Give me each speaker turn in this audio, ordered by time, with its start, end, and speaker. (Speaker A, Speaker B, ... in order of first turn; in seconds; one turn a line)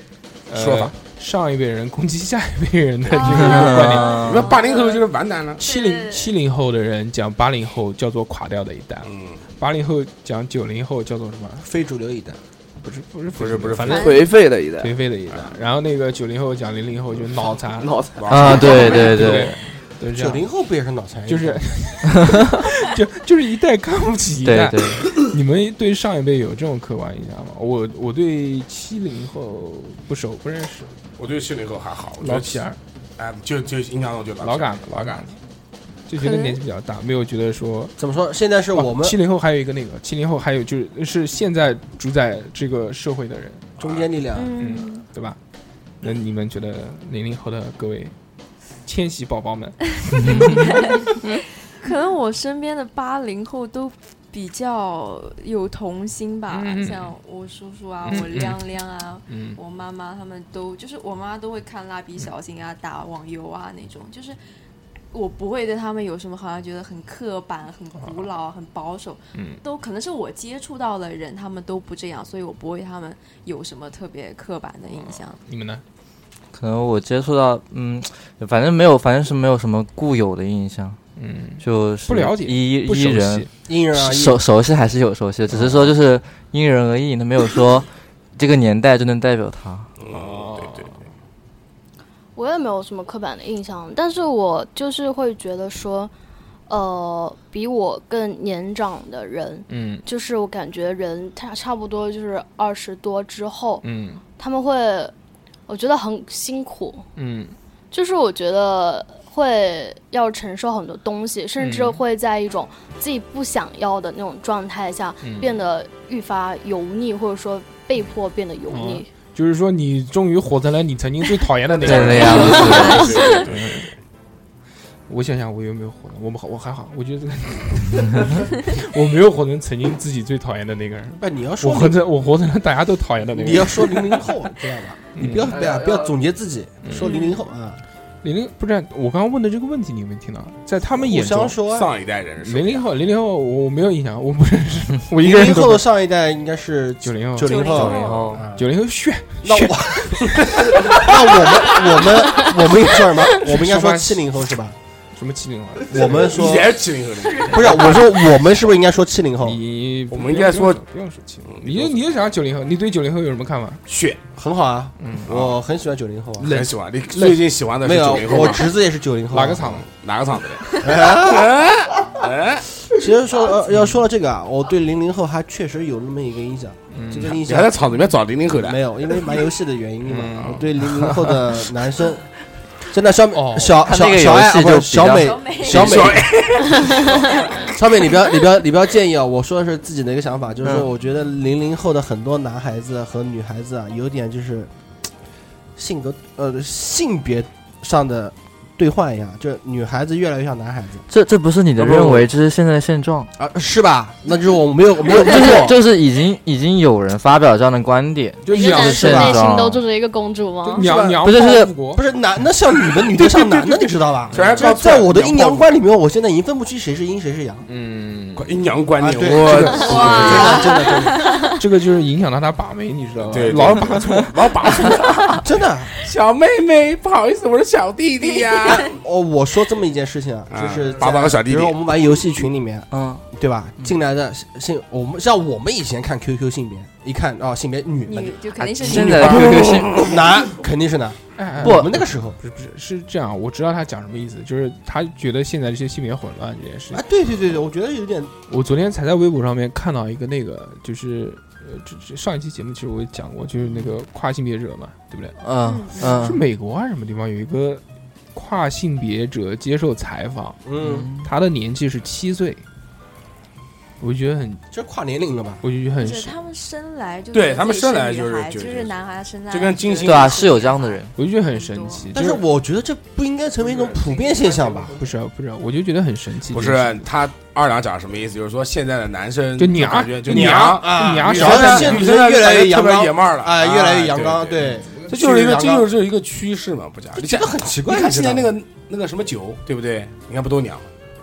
Speaker A: 0.5-4.1
Speaker B: 0.6-0.9
Speaker C: 3.1-5.6
Speaker D: 3.2-5.0
Speaker E: 3.3-4.5
Speaker A: 5.6-11.7
Speaker D: 5.6-6.3
Speaker C: 9.0-9.4
Speaker F: 11.6-12.4
Speaker A: 12.8-17.9
Speaker C: 13.3-14.1
Speaker D: 13.8-14.3
Speaker B: 13.9-15.0
Speaker B: 17.6-19.0
Speaker C: 18.1-19.1
Speaker E: 18.3-19.6
Speaker A: 18.5-20.5
Speaker F: 20.1-21.6
Speaker A: 21.3-30.9
Speaker E: 24.4-25.1
Speaker C: 31.2-32.6
Speaker A: 32.2-32.8
Speaker C: 33.2-35.3
Speaker A: 34.4-35.4
Speaker A: 36.1-37.9
Speaker D: 36.2-36.6
Speaker F: 38.0-39.2
Speaker A: 38.7-43.7
Speaker C: 43.8-44.0
Speaker F: 43.8-44.6
Speaker D: 44.4-45.0
Speaker A: 44.6-45.4
Speaker A: 46.0-48.1
Speaker A: 48.8-50.8
Speaker E: 50.1-50.5
Speaker D: 50.2-64.4
Speaker A: 56.5-57.1
Speaker A: 58.0-58.6
Speaker A: 59.3-59.6
Speaker D: 65.1-75.4
Speaker A: 69.3-69.6
Speaker A: 75.4-75.8
Speaker E: 76.5-81.0
Speaker A: 81.2-83.5
Speaker E: 81.6-89.9
Speaker F: 83.7-84.4
Speaker A: 85.5-85.9
Speaker C: 90.0-91.0
Speaker A: 90.1-91.0
Speaker G: 92.3-96.1
Speaker G: 96.7-103.8
Speaker A: 99.7-100.0
Speaker A: 103.8-104.2
Speaker G: 104.4-105.1
Speaker G: 105.7-107.0
Speaker A: 107.2-107.5
Speaker G: 107.9-119.1
Speaker A: 111.6-112.0
Speaker A: 115.2-115.6
Speaker A: 118.7-123.9
Speaker C: 121.8-123.9
Speaker E: 121.8-123.2
Speaker G: 122.2-123.4
Speaker D: 122.2-123.4
Speaker A: 125.1-134.2
Speaker F: 131.2-132.0
Speaker F: 133.3-137.8
Speaker A: 135.1-135.6
Speaker B: 135.5-136.2
Speaker A: 136.8-137.2
Speaker D: 137.0-137.4
Speaker A: 138.2-141.6
Speaker F: 140.9-141.9
Speaker C: 141.7-142.9
Speaker A: 142.4-145.8
Speaker F: 145.2-148.7
Speaker A: 147.0-147.7
Speaker D: 147.4-148.4
Speaker E: 147.6-148.5
Speaker A: 148.5-150.4
Speaker F: 149.4-154.8
Speaker A: 153.4-154.2
Speaker A: 155.2-156.2
Speaker F: 155.9-156.8
Speaker C: 155.9-158.2
Speaker F: 157.5-159.6
Speaker A: 159.4-163.8
Speaker C: 160.1-160.8
Speaker C: 161.4-162.0
Speaker C: 163.9-164.2
Speaker F: 164.3-166.6
Speaker A: 165.0-165.3
Speaker C: 165.3-165.6
Speaker A: 166.4-167.4
Speaker C: 166.4-168.7
Speaker F: 167.8-169.8
Speaker A: 169.3-169.8
Speaker C: 169.8-172.8
Speaker F: 170.8-171.5
Speaker F: 172.9-177.8
Speaker A: 176.9-177.4
Speaker C: 177.4-178.8
Speaker F: 178.6-182.2
Speaker A: 180.1-181.3
Speaker F: 182.9-186.3
Speaker A: 183.3-183.7
Speaker E: 183.7-185.4
Speaker D: 185.1-186.1
Speaker C: 185.7-187.7
Speaker F: 187.7-194.7
Speaker E: 190.6-190.9
Speaker F: 195.8-201.1
Speaker E: 201.1-203.3
Speaker F: 201.8-202.2
Speaker F: 203.4-205.8
Speaker E: 205.1-209.8
Speaker A: 208.4-209.2
Speaker G: 208.5-210.8
Speaker F: 208.7-209.4
Speaker A: 210.6-212.0
Speaker F: 210.8-211.3
Speaker E: 211.2-211.7
Speaker F: 211.9-217.6
Speaker C: 213.1-215.6
Speaker A: 214.3-214.8
Speaker A: 217.7-218.5
Speaker C: 218.3-220.6
Speaker F: 219.0-221.3
Speaker A: 219.2-220.6
Speaker D: 219.8-221.4
Speaker A: 221.6-224.3
Speaker C: 223.2-225.4
Speaker F: 225.4-225.9
Speaker C: 226.0-228.9
Speaker F: 228.8-242.4
Speaker C: 230.5-231.8
Speaker E: 232.9-233.2
Speaker D: 238.1-239.7
Speaker E: 238.6-240.1
Speaker C: 239.3-240.2
Speaker A: 241.3-247.0
Speaker E: 241.6-242.0
Speaker F: 246.9-248.3
Speaker A: 248.5-255.4
Speaker E: 255.4-256.4
Speaker D: 255.6-256.3
Speaker A: 256.1-257.8
Speaker A: 258.3-260.6
Speaker F: 260.6-261.1
Speaker E: 260.8-261.3
Speaker A: 261.2-262.6
Speaker A: 264.0-264.6
Speaker F: 264.7-265.6
Speaker A: 265.6-266.3
Speaker D: 266.0-272.1
Speaker C: 267.3-268.9
Speaker C: 269.5-270.5
Speaker E: 270.0-271.1
Speaker A: 271.1-272.4
Speaker F: 272.1-275.0
Speaker B: 273.6-274.9
Speaker A: 274.9-277.1
Speaker C: 276.5-290.9
Speaker A: 279.6-282.1
Speaker F: 280.3-285.9
Speaker F: 287.1-288.5